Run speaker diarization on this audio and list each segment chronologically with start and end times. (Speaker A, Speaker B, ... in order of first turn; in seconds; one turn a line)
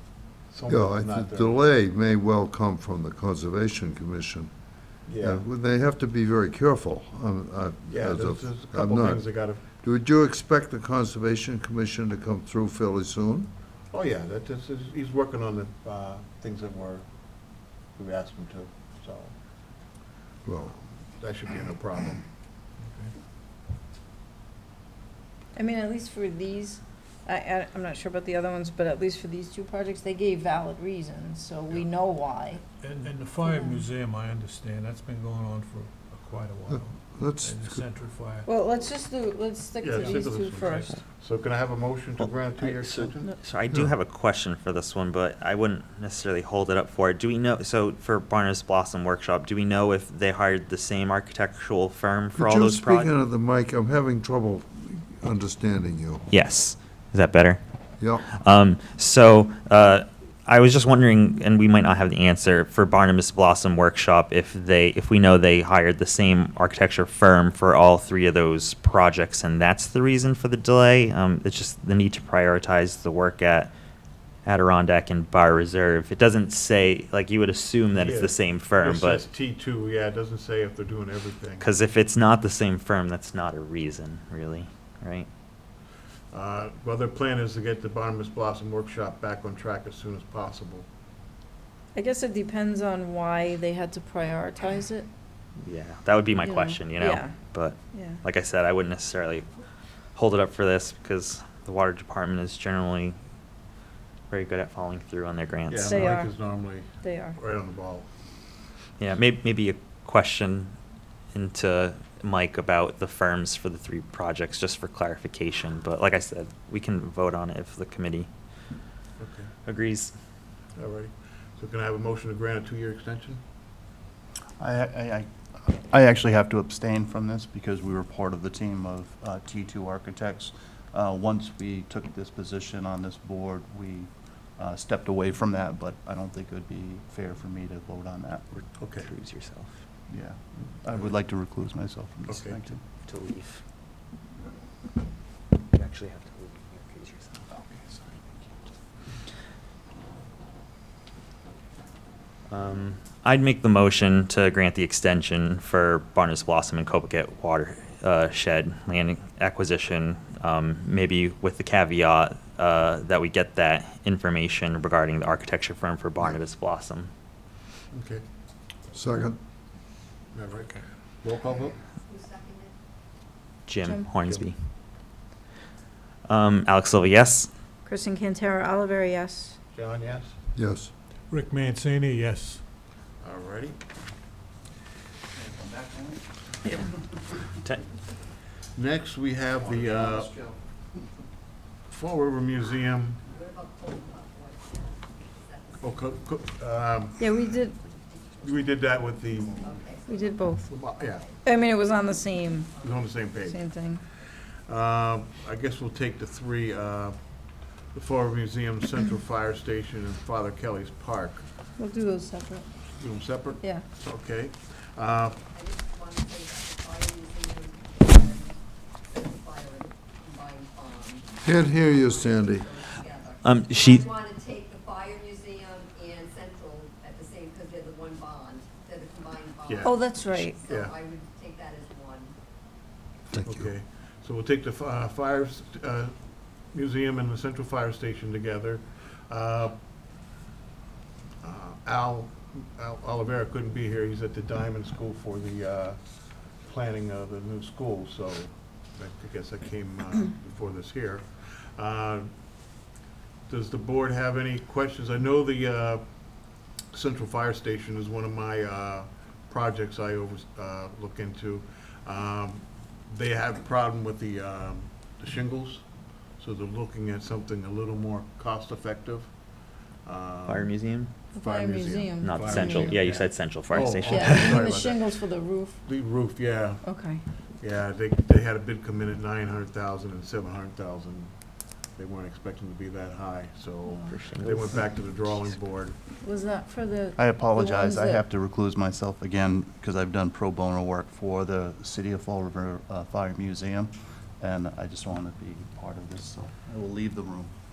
Speaker A: 0.5-1.5
Speaker B: 0.7-4.5
Speaker A: 5.1-5.4
Speaker B: 5.2-13.5
Speaker A: 7.9-9.6
Speaker A: 13.9-17.1
Speaker A: 17.9-19.3
Speaker B: 20.4-20.7
Speaker A: 20.7-22.2
Speaker C: 22.8-23.1
Speaker D: 25.6-32.6
Speaker C: 32.8-38.5
Speaker D: 33.4-33.8
Speaker B: 37.1-37.7
Speaker D: 38.5-41.0
Speaker A: 39.8-43.3
Speaker C: 40.0-41.0
Speaker E: 42.4-53.1
Speaker B: 52.4-56.3
Speaker E: 56.3-57.6
Speaker B: 58.0-58.3
Speaker E: 58.2-73.7
Speaker E: 74.5-79.2
Speaker A: 78.0-81.7
Speaker E: 81.6-85.3
Speaker A: 86.3-90.9
Speaker D: 92.0-95.1
Speaker E: 95.6-99.5
Speaker D: 96.4-97.4
Speaker D: 97.9-98.2
Speaker E: 100.2-103.2
Speaker E: 104.3-106.2
Speaker A: 105.7-108.1
Speaker D: 105.8-106.3
Speaker D: 106.9-107.4
Speaker E: 109.0-110.7
Speaker E: 111.3-118.3
Speaker A: 119.2-119.5
Speaker E: 119.7-120.1
Speaker A: 120.8-123.4
Speaker F: 124.6-138.5
Speaker E: 138.6-139.7
Speaker A: 138.8-139.1
Speaker F: 140.1-142.8
Speaker A: 142.3-142.6
Speaker E: 143.0-143.6
Speaker E: 145.7-147.5
Speaker E: 152.5-167.1
Speaker A: 167.9-168.2
Speaker B: 168.9-169.4
Speaker A: 170.3-171.8
Speaker G: 171.4-172.7
Speaker E: 173.7-174.6
Speaker D: 173.8-174.1
Speaker E: 176.3-177.5
Speaker D: 177.8-179.6
Speaker A: 179.7-180.4
Speaker B: 180.6-180.9
Speaker C: 181.3-182.6
Speaker A: 183.2-183.8
Speaker A: 188.7-190.4
Speaker A: 191.9-193.2
Speaker G: 193.3-196.2
Speaker A: 195.8-197.3
Speaker D: 197.2-197.8
Speaker G: 197.6-199.0
Speaker A: 198.4-199.7
Speaker G: 199.5-203.3
Speaker D: 200.1-200.8
Speaker A: 200.7-201.2
Speaker D: 201.4-202.7
Speaker A: 202.8-203.6
Speaker D: 203.4-204.0
Speaker A: 204.3-207.2
Speaker A: 207.8-211.4
Speaker D: 211.8-212.7
Speaker A: 212.9-215.4
Speaker D: 213.6-213.8
Speaker G: 215.5-232.3
Speaker B: 221.4-222.7
Speaker E: 223.4-224.1
Speaker A: 229.7-230.9
Speaker D: 229.8-230.6
Speaker B: 233.3-233.7
Speaker A: 233.4-239.8
Speaker A: 241.4-252.4
Speaker A: 253.5-270.8
Speaker E: 270.5-271.1
Speaker D: 271.3-273.0
Speaker A: 271.3-275.1
Speaker E: 272.2-274.7
Speaker D: 274.0-275.9
Speaker A: 275.8-276.9
Speaker D: 276.8-277.2
Speaker A: 277.6-286.0
Speaker E: 284.1-284.9
Speaker D: 286.2-288.2
Speaker F: 287.2-297.6